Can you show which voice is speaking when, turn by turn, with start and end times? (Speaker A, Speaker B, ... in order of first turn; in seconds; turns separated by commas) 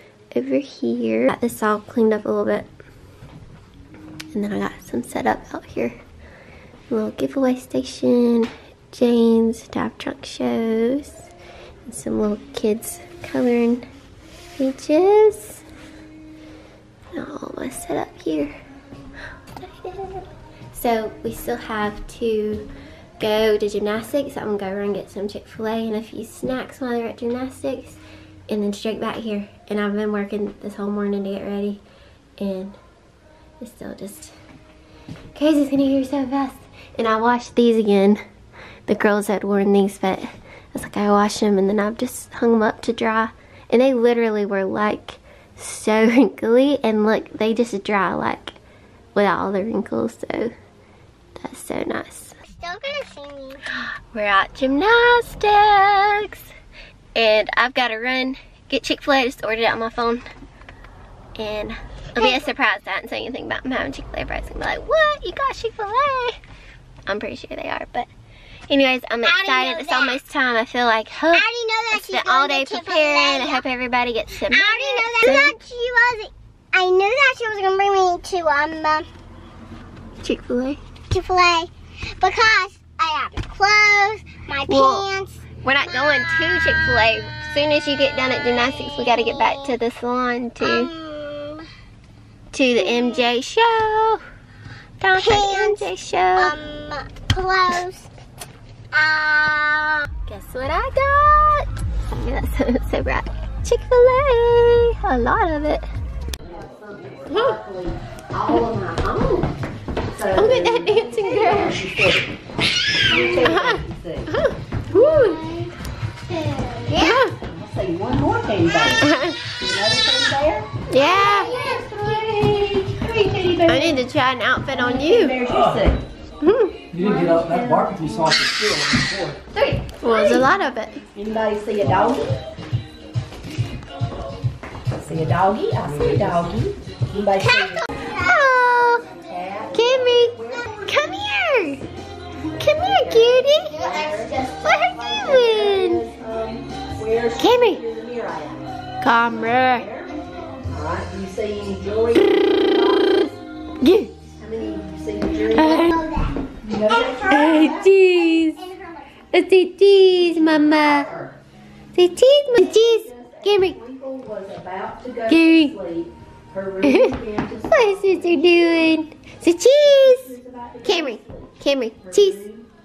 Speaker A: 0.3-2.7, Speaker A: 4.3-6.0, Speaker A: 6.9-11.3, Speaker A: 11.9-13.9, Speaker A: 14.6-15.7, Speaker A: 17.1-18.5, Speaker A: 19.6-22.7, Speaker A: 23.2-31.8, Speaker A: 32.4-32.8, Speaker A: 33.6-34.3, Speaker A: 35.4-38.2, Speaker A: 38.9-48.6, Speaker A: 49.1-50.5, Speaker A: 51.4-52.4, Speaker B: 52.6-53.6, Speaker A: 54.1-56.5, Speaker A: 57.2-60.2, Speaker A: 61.4-66.4, Speaker B: 62.2-62.5, Speaker A: 67.1-68.1, Speaker A: 68.7-75.6, Speaker B: 69.2-70.2, Speaker B: 71.3-73.6, Speaker B: 74.5-79.1, Speaker A: 80.2-80.8, Speaker B: 81.1-85.4, Speaker A: 84.7-85.1, Speaker A: 85.6-90.9, Speaker B: 88.6-89.8, Speaker B: 90.6-91.7, Speaker A: 92.5-94.2, Speaker B: 92.8-93.3, Speaker A: 95.0-96.6, Speaker B: 95.2-98.1, Speaker B: 98.9-100.1, Speaker A: 100.3-105.9, Speaker C: 106.4-109.5, Speaker A: 107.3-107.6, Speaker C: 110.1-112.3, Speaker A: 110.3-111.8, Speaker C: 113.0-114.3, Speaker B: 113.1-113.4, Speaker A: 113.2-115.4, Speaker B: 114.9-115.7, Speaker B: 116.3-117.2, Speaker A: 117.0-117.4, Speaker C: 117.4-120.7, Speaker A: 119.0-119.4, Speaker A: 120.9-121.5, Speaker B: 121.1-122.0, Speaker C: 121.4-124.0, Speaker A: 123.7-125.4, Speaker C: 124.7-126.0, Speaker D: 125.5-125.9, Speaker A: 126.4-126.9, Speaker D: 126.9-129.4, Speaker C: 127.0-128.7, Speaker A: 129.5-131.0, Speaker B: 130.1-130.4, Speaker C: 131.2-132.3, Speaker C: 135.0-137.9, Speaker D: 135.9-136.6, Speaker A: 137.4-139.1, Speaker C: 139.2-140.9, Speaker A: 139.7-141.8, Speaker A: 142.6-143.8, Speaker C: 142.6-148.7, Speaker B: 143.7-144.8, Speaker A: 144.6-146.0, Speaker A: 147.4-147.8, Speaker A: 149.0-149.9, Speaker C: 149.5-150.1, Speaker C: 150.7-153.4, Speaker A: 153.8-154.1, Speaker C: 154.4-155.9, Speaker A: 155.5-156.0, Speaker B: 155.9-156.4, Speaker C: 156.6-157.9, Speaker B: 157.0-159.2, Speaker A: 157.3-158.6, Speaker A: 159.3-161.1, Speaker C: 160.1-161.4, Speaker A: 161.9-163.8, Speaker C: 162.5-168.7, Speaker A: 165.3-165.8, Speaker A: 166.8-167.2, Speaker A: 167.7-172.4, Speaker C: 169.8-172.7